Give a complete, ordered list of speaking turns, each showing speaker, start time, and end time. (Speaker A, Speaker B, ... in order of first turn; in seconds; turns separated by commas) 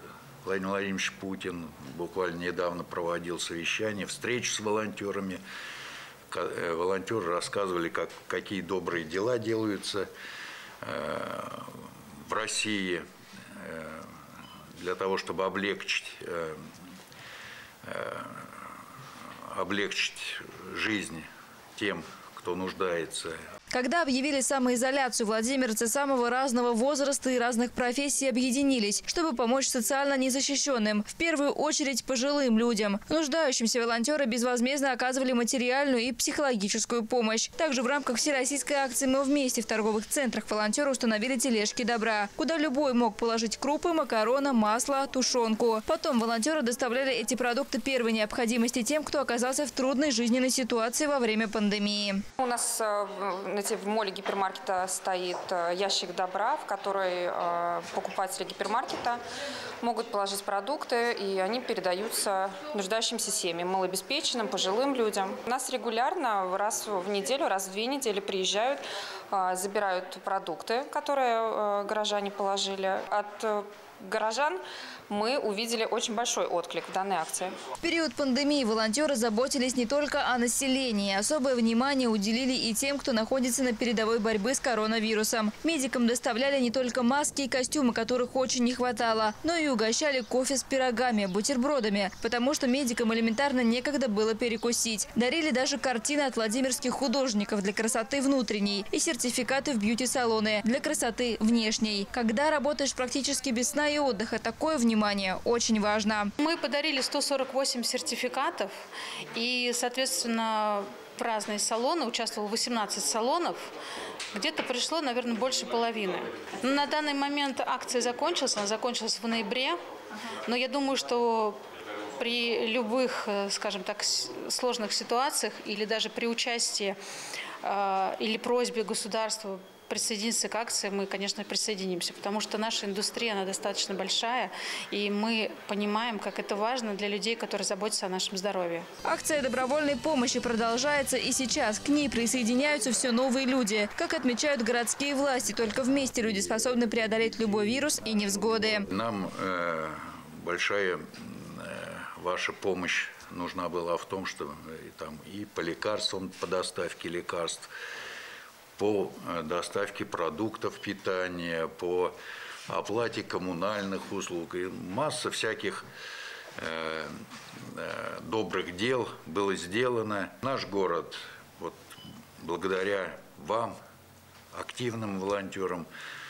Speaker A: 0.4-5.4, Speaker A: 6.3-10.1, Speaker A: 10.8-14.1, Speaker A: 14.8-16.6, Speaker A: 17.9-18.7, Speaker A: 19.5-23.4, Speaker B: 23.7-52.2, Speaker C: 52.4-59.2, Speaker C: 59.8-77.6, Speaker B: 77.8-106.3, Speaker D: 106.4-108.7, Speaker D: 109.3-113.7, Speaker D: 114.3-119.8, Speaker D: 120.5-121.6, Speaker D: 122.2-127.0, Speaker D: 127.6-138.9, Speaker B: 139.1-148.9, Speaker A: 148.9-157.7, Speaker A: 158.8-162.1, Speaker A: 162.7-165.8, Speaker A: 166.6-171.8, Speaker A: 172.4-173.8, Speaker A: 174.5-175.9